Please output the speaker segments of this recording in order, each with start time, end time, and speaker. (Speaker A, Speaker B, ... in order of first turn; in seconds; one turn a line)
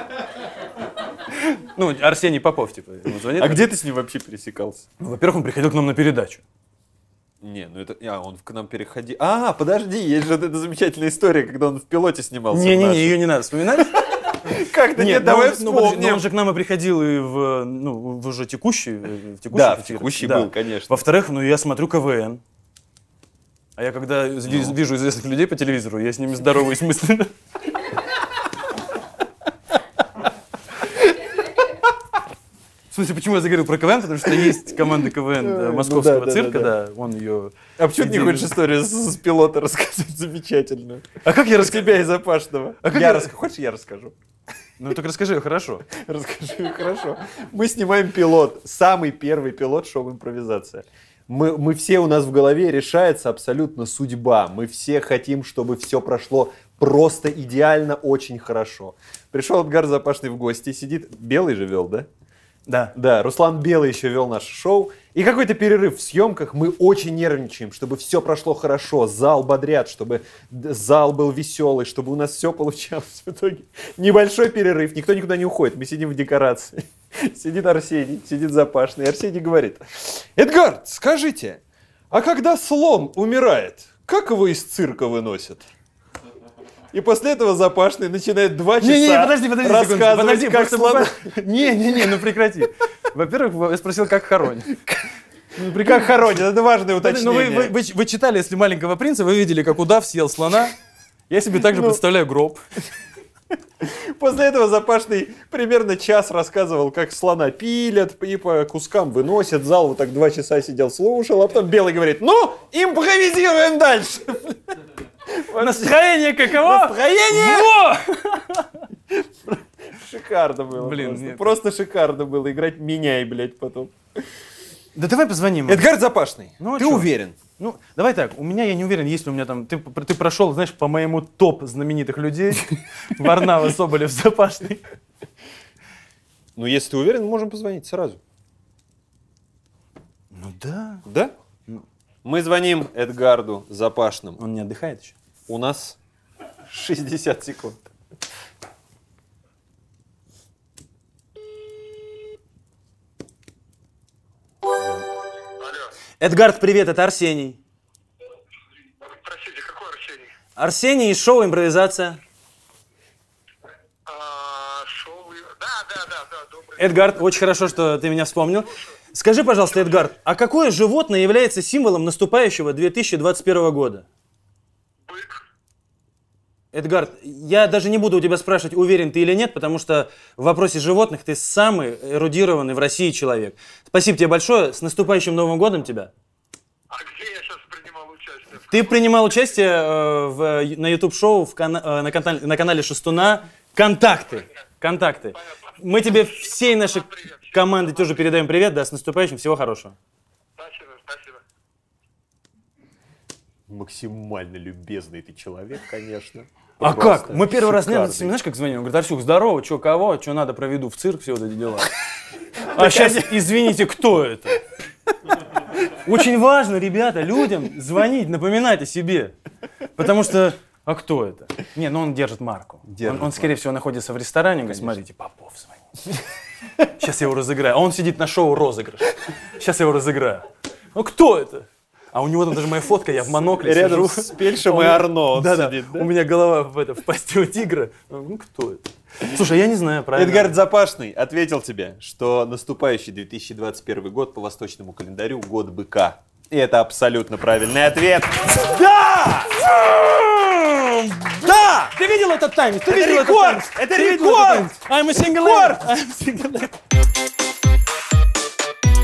Speaker A: 1.4-3.7
Speaker B: 3.3-4.8
Speaker A: 5.0-6.4
Speaker B: 7.4-13.2
Speaker A: 12.5-14.3
Speaker B: 13.9-16.2
Speaker A: 14.9-22.4
Speaker B: 19.5-21.0
Speaker A: 23.8-27.3
Speaker B: 24.5-24.7
Speaker A: 32.9-38.5
Speaker B: 35.4-36.7
Speaker B: 37.8-44.1
Speaker A: 41.2-42.0
Speaker A: 42.8-43.3
Speaker A: 44.8-45.9
Speaker B: 45.9-62.1
Speaker A: 62.7-62.9
Speaker B: 62.9-85.7
Speaker B: 86.9-91.3
Speaker A: 88.8-95.0
Speaker B: 95.5-97.7
Speaker A: 95.6-96.1
Speaker A: 97.0-100.7
Speaker A: 101.3-102.6
Speaker B: 101.6-102.0
Speaker B: 103.8-114.7
Speaker B: 115.3-117.7
Speaker A: 115.5-118.8
Speaker B: 119.1-124.2
Speaker A: 120.7-121.5
Speaker A: 124.9-125.9
Speaker B: 125.7-127.4
Speaker A: 126.6-134.8
Speaker B: 136.6-138.2
Speaker A: 140.3-141.0
Speaker B: 141.1-141.3
Speaker B: 142.2-144.4
Speaker A: 144.4-145.2
Speaker B: 145.5-146.0
Speaker B: 146.7-147.9
Speaker A: 154.8-155.0
Speaker C: 155.6-155.9
Speaker A: 156.2-157.6
Speaker C: 159.0-160.3
Speaker A: 160.6-162.2
Speaker C: 164.1-166.9
Speaker A: 166.8-174.1
Speaker C: 175.1-175.4
Speaker A: 176.7-186.1
Speaker C: 186.9-188.7
Speaker A: 188.7-199.9
Speaker C: 200.6-201.4
Speaker B: 203.7-208.3
Speaker A: 206.8-211.9
Speaker A: 212.6-214.6
Speaker B: 212.7-213.4
Speaker A: 215.8-219.3
Speaker A: 219.9-225.8
Speaker B: 222.8-223.5
Speaker B: 224.7-225.0
Speaker A: 227.0-240.6
Speaker B: 233.3-236.1
Speaker B: 240.1-248.9
Speaker A: 248.5-251.4
Speaker B: 251.3-252.0
Speaker A: 251.9-256.7
Speaker B: 252.8-255.8